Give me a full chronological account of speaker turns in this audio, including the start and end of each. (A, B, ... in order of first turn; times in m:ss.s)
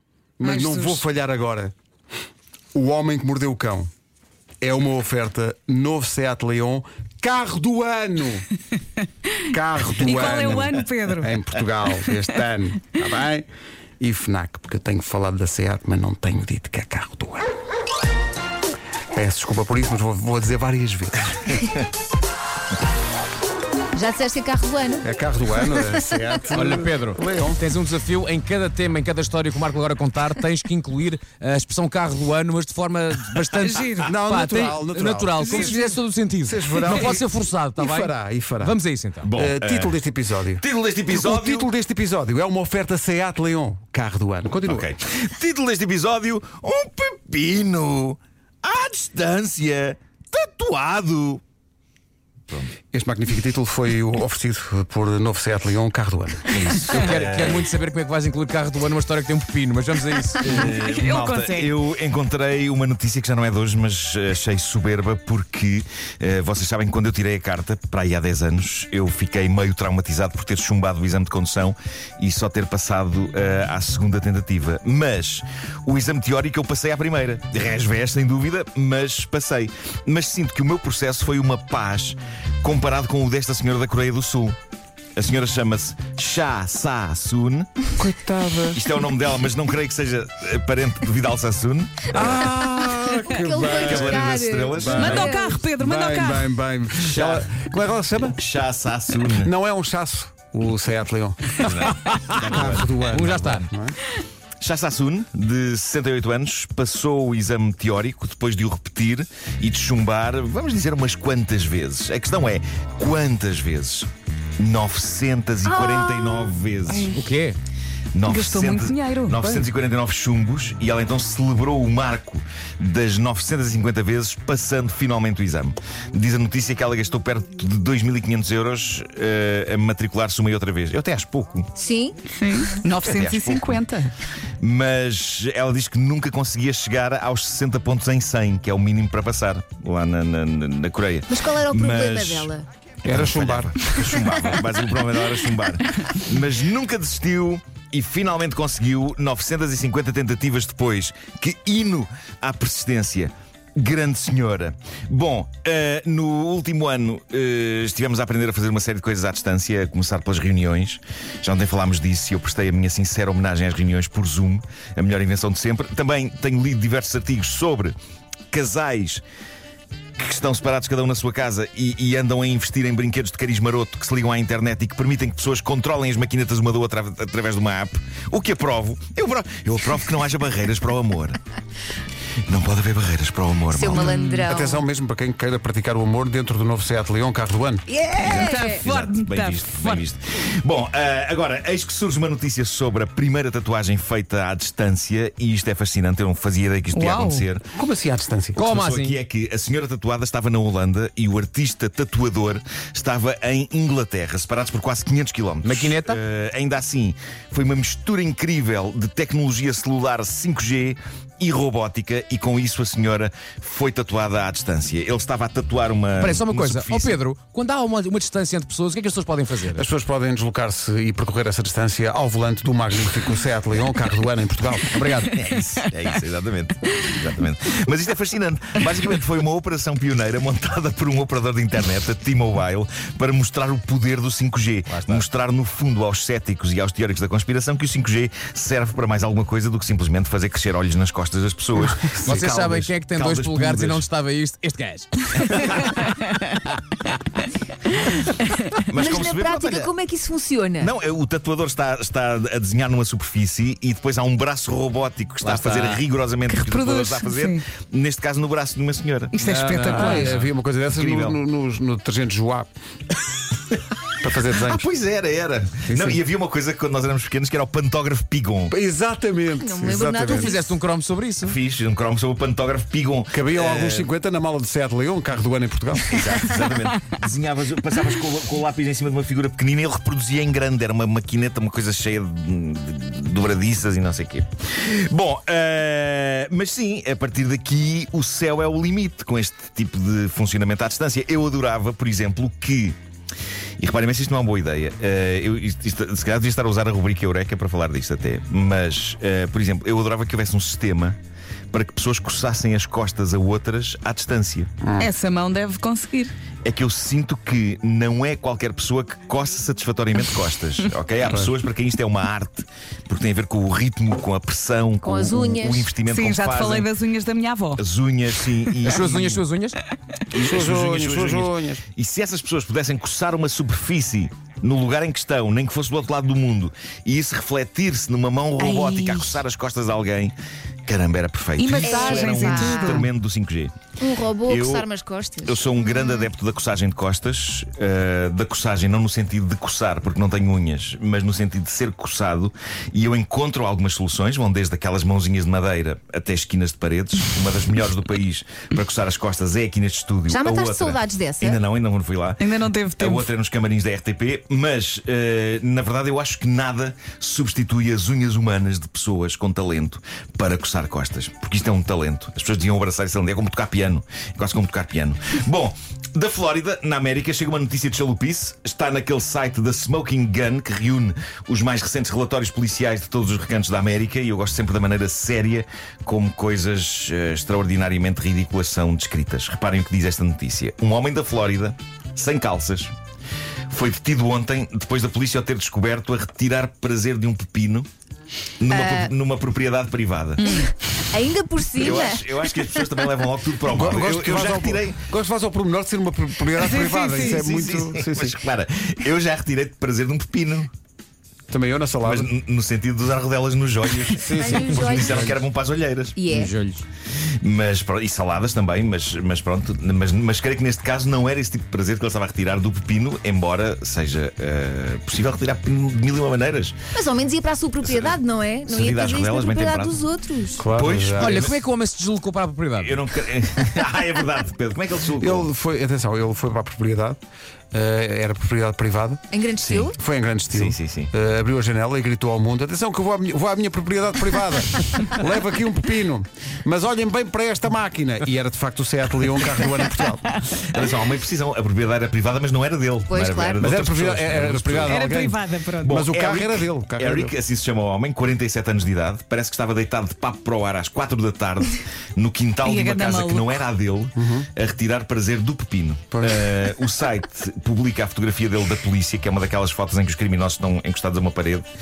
0:00.4-0:01.7 A
0:00.4-0:01.1 B
0:02.7-0:03.9 A
0:04.6-0:08.5 A
0:09.4-0:13.5 A
0:09.9-0:11.4 B
0:14.0-0:17.5 A
0:19.1-0:21.7 A
0:23.9-0:25.0 C
0:25.0-0:27.6 A
0:26.5-0:39.3 D
0:33.6-0:34.1 B
0:34.0-0:35.9 A
0:35.5-0:35.9 B
0:36.4-0:38.8 A
0:36.9-0:37.2 E
0:39.2-0:40.0 E
0:39.4-0:44.9 A
0:40.6-0:41.7 E
0:44.6-0:51.4 E
0:52.9-0:57.1 A
0:56.5-0:57.7 E
0:56.9-1:00.7 D
1:00.4-1:24.6 E
1:00.5-1:01.7 B
1:25.2-1:27.8 E
1:28.0-1:28.8 A
1:28.7-1:32.5 E
1:32.1-1:38.4 A
1:33.3-1:35.6 C
1:33.7-1:35.3 E
1:35.0-1:36.5 B
1:37.0-1:37.6 E
1:38.3-1:39.5 E
1:39.4-1:41.9 A
1:41.6-1:43.0 E
1:41.7-1:43.7 D
1:42.4-1:44.0 A
1:44.6-1:57.2 E
1:57.0-1:57.6 D
1:58.1-2:11.7 E
1:58.3-1:59.7 B
2:11.8-2:12.7 C
2:12.4-2:14.1 B
2:13.0-2:13.8 E
2:14.6-2:22.5 E
2:21.3-2:22.6 C
2:23.0-2:48.0 E
2:23.1-2:23.9 A
2:48.5-2:49.2 E
2:50.2-3:01.4 E
3:02.5-3:04.2 E
3:03.7-3:04.8 C
3:04.0-3:04.4 B
3:04.5-3:07.9 A
3:07.9-3:08.8 C
3:08.2-3:17.6 E
3:08.2-3:10.0 B
3:16.9-3:17.5 B
3:17.7-3:18.6 A
3:18.6-3:19.2 D
3:18.6-3:37.2 E
3:25.6-3:26.2 D
3:36.2-3:39.8 D
3:39.8-3:44.9 A
3:44.9-3:45.4 D
3:45.2-4:04.1 E
3:54.9-3:55.2 D
4:01.8-4:02.8 A
4:02.3-4:06.6 D
4:05.4-4:06.0 E
4:08.9-4:09.9 E
4:09.0-4:10.9 C
4:10.8-4:19.4 E
4:15.4-4:16.0 D
4:16.5-4:17.6 B
4:19.3-4:20.3 B
4:19.4-4:20.5 D
4:19.8-4:22.7 A
4:20.1-4:21.4 E
4:24.2-4:24.9 A
4:24.4-4:28.7 E
4:25.8-4:26.2 A
4:28.7-4:30.6 A
4:29.6-4:30.6 C
4:30.2-4:31.6 D
4:31.4-4:34.1 E
4:33.3-4:36.2 A
4:36.1-4:53.0 E
4:53.8-5:01.2 E
5:01.7-5:04.7 E
5:04.8-5:05.1 A
5:05.0-5:06.3 B
5:06.6-5:16.9 E
5:15.0-5:15.9 C
5:16.0-5:17.8 B
5:17.8-5:19.4 E
5:18.4-5:18.8 B
5:18.9-5:19.8 D
5:20.3-5:33.8 E
5:20.4-5:21.8 A
5:28.6-5:29.4 C
5:31.6-5:33.1 B
5:31.8-5:33.1 C
5:34.0-5:35.8 C
5:34.5-5:34.9 E
5:35.4-6:22.9 E
5:50.3-5:51.6 C
5:52.4-5:53.3 B
6:23.7-6:27.9 E
6:28.6-6:30.5 E
6:28.7-6:29.1 C
6:30.4-6:30.7 B
6:30.5-6:32.6 C
6:31.8-6:35.1 E
6:33.7-6:38.4 A
6:36.6-6:37.4 B
6:37.1-6:40.7 E
6:41.5-6:42.3 A
6:42.0-6:46.2 E
6:44.2-6:45.3 A
6:44.4-6:45.4 C
6:46.2-6:46.5 C
6:46.3-6:46.8 D
6:47.4-6:56.8 E
6:56.9-7:00.6 C
6:57.8-7:00.0 E
7:00.6-7:01.5 A
7:00.7-7:01.6 E
7:01.2-7:03.0 D
7:02.8-7:05.5 E
7:05.2-7:07.2 A
7:07.7-7:20.4 A
7:09.3-7:10.0 C
7:10.5-7:11.1 E
7:20.4-7:25.1 E
7:23.1-7:23.7 C
7:23.6-7:27.3 A
7:24.8-7:26.0 B
7:25.8-7:41.7 E
7:32.6-7:33.6 B
7:34.2-7:34.5 A
7:36.1-7:36.6 A